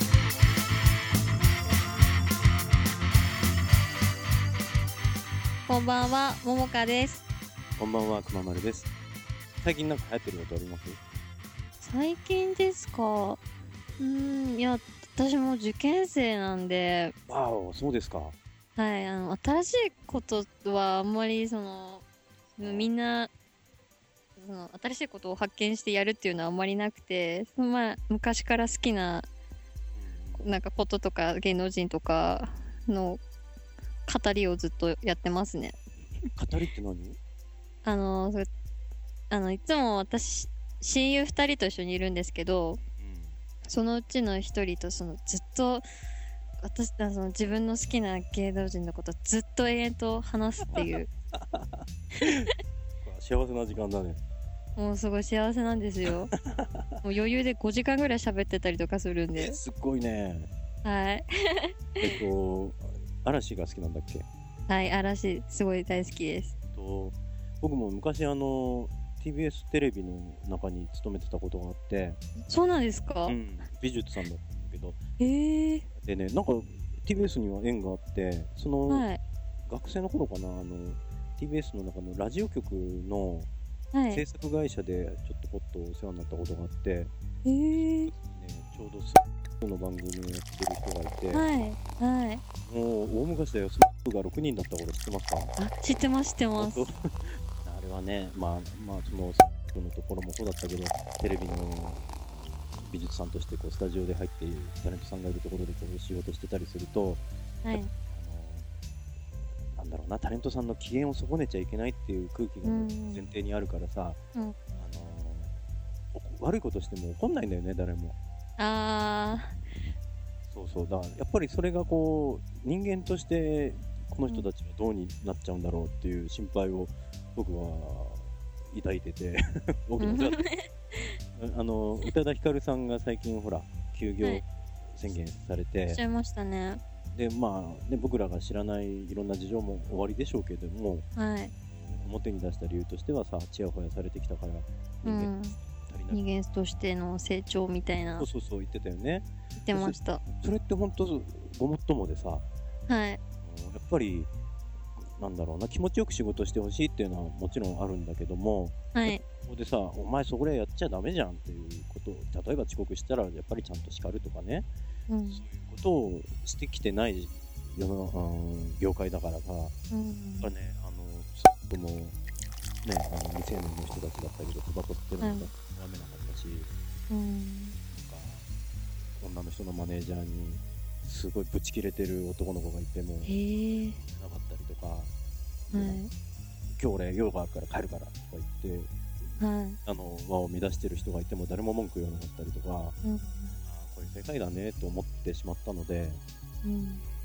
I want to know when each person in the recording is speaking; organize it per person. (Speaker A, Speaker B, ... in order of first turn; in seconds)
Speaker A: 5.7-7.2, 11.8-13.4, 14.0-17.1, 18.8-22.1, 22.6-23.3, 24.4-29.3, 30.4-33.2, 34.0-35.8, 37.8-38.5, 39.3-42.8, 43.7-45.8, 46.6-51.1, 54.8-56.3, 57.0-59.6, 60.8-62.2, 64.7-66.5, 72.5-73.4, 75.2-75.9, 78.9-79.2, 83.9-84.2, 87.5-88.1, 91.3-92.4, 95.6-96.9, 107.6-107.9, 112.6-113.3, 118.6-119.6, 130.0-131.2, 135.9-136.8, 141.2-141.5, 145.1-145.6, 146.1-148.3, 149.6-150.2, 152.9-153.2, 158.9-159.2, 165.1-165.4, 169.9-170.5, 175.2-175.5, 177.1-177.8, 183.2-184.0, 185.7-186.1, 189.4-189.8, 193.0-193.6, 196.6-197.0
Speaker B: 7.8-8.9, 9.6-11.0, 17.3-18.4, 22.6-22.9, 29.9-30.4, 36.4-37.2, 43.0-43.4, 50.8-52.5, 53.0-54.2, 56.0-57.0, 59.4-60.5, 62.0-64.3, 66.7-72.2, 73.3-75.0, 76.0-79.1, 79.7-83.5, 84.1-87.1, 87.7-91.5, 92.7-95.5, 96.5-97.0, 97.5-102.1, 102.8-107.2, 108.1-108.7, 109.8-114.2, 114.8-115.5, 116.1-118.2, 120.5-130.4, 131.4-136.0, 136.9-141.1, 141.7-146.2, 148.2-152.5, 153.4-154.3, 155.2-164.7, 165.3-169.7, 170.4-172.2, 172.8-176.7, 177.9-178.5, 179.2-183.4, 184.0-185.1, 185.7-186.0, 186.8-188.9, 189.8-192.9, 193.6-196.2